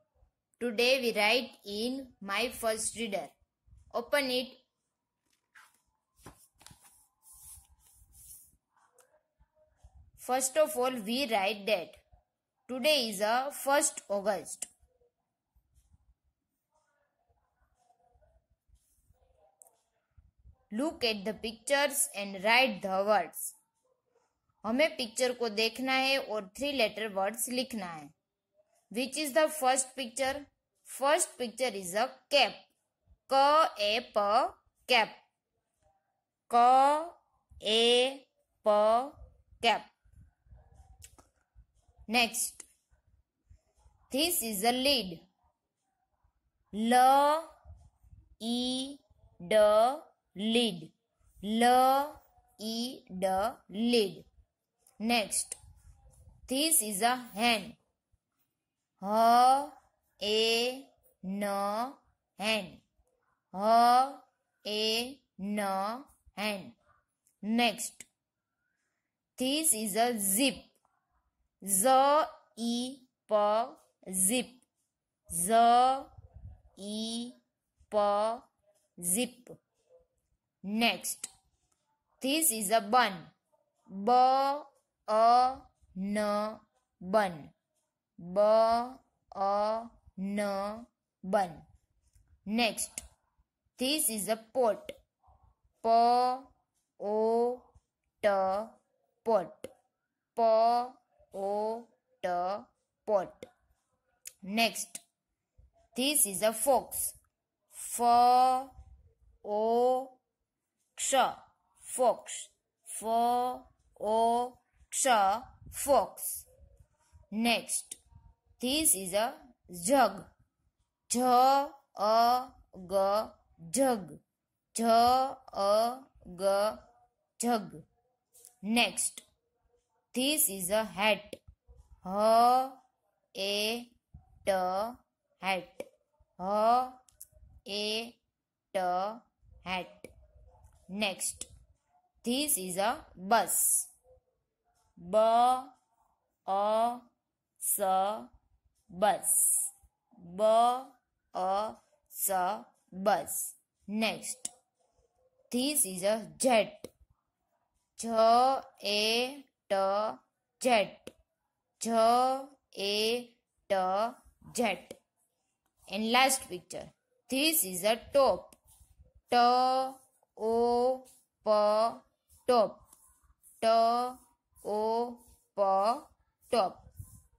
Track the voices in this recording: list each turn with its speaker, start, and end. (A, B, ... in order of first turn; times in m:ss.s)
0:00.6-0:03.3 A
0:03.9-0:04.6 A
0:10.2-0:12.0 A
0:12.7-0:14.7 A
0:20.7-0:23.6 A
0:24.6-0:28.1 A
0:28.9-0:32.7 A
0:33.3-0:35.2 A
0:36.5-0:39.9 A
0:42.1-0:42.6 A
0:44.1-0:45.2 A
0:46.7-0:47.5 A
0:48.4-0:54.2 A
0:55.0-0:55.6 A
0:56.5-0:57.8 A
0:59.0-1:02.8 A
1:03.5-1:06.8 A
1:07.4-1:08.0 A
1:09.4-1:10.7 A
1:11.6-1:14.6 A
1:15.3-1:16.1 A
1:16.8-1:17.4 A
1:17.9-1:19.6 A
1:20.6-1:21.3 A
1:22.2-1:23.3 A
1:23.9-1:27.5 A
1:28.2-1:31.6 A
1:32.4-1:33.0 A
1:33.8-1:35.0 A
1:35.8-1:37.7 A
1:38.2-1:39.7 A
1:40.3-1:43.5 A
1:44.4-1:45.0 A
1:45.9-1:47.2 A
1:47.7-1:48.7 A
1:49.4-1:50.2 A
1:50.9-1:56.4 A
1:57.3-1:58.0 A
1:58.6-2:00.3 A
2:01.1-2:04.2 A
2:04.7-2:06.8 A
2:07.4-2:07.8 A
2:08.6-2:09.2 A
2:10.1-2:11.4 A
2:12.0-2:12.8 A
2:13.3-2:13.9 A
2:14.4-2:15.9 A
2:16.4-2:17.0 A
2:17.6-2:18.2 A
2:18.7-2:20.1 A
2:20.9-2:21.5 A
2:22.2-2:23.9 A
2:25.0-2:25.8 A
2:26.4-2:27.1 A
2:27.6-2:28.3 A
2:28.9-2:34.5 A
2:35.5-2:36.9 A
2:38.0-2:41.1 A
2:41.8-2:45.0 A
2:45.9-2:48.6 A
2:49.3-2:52.8 A
2:53.6-2:56.8 A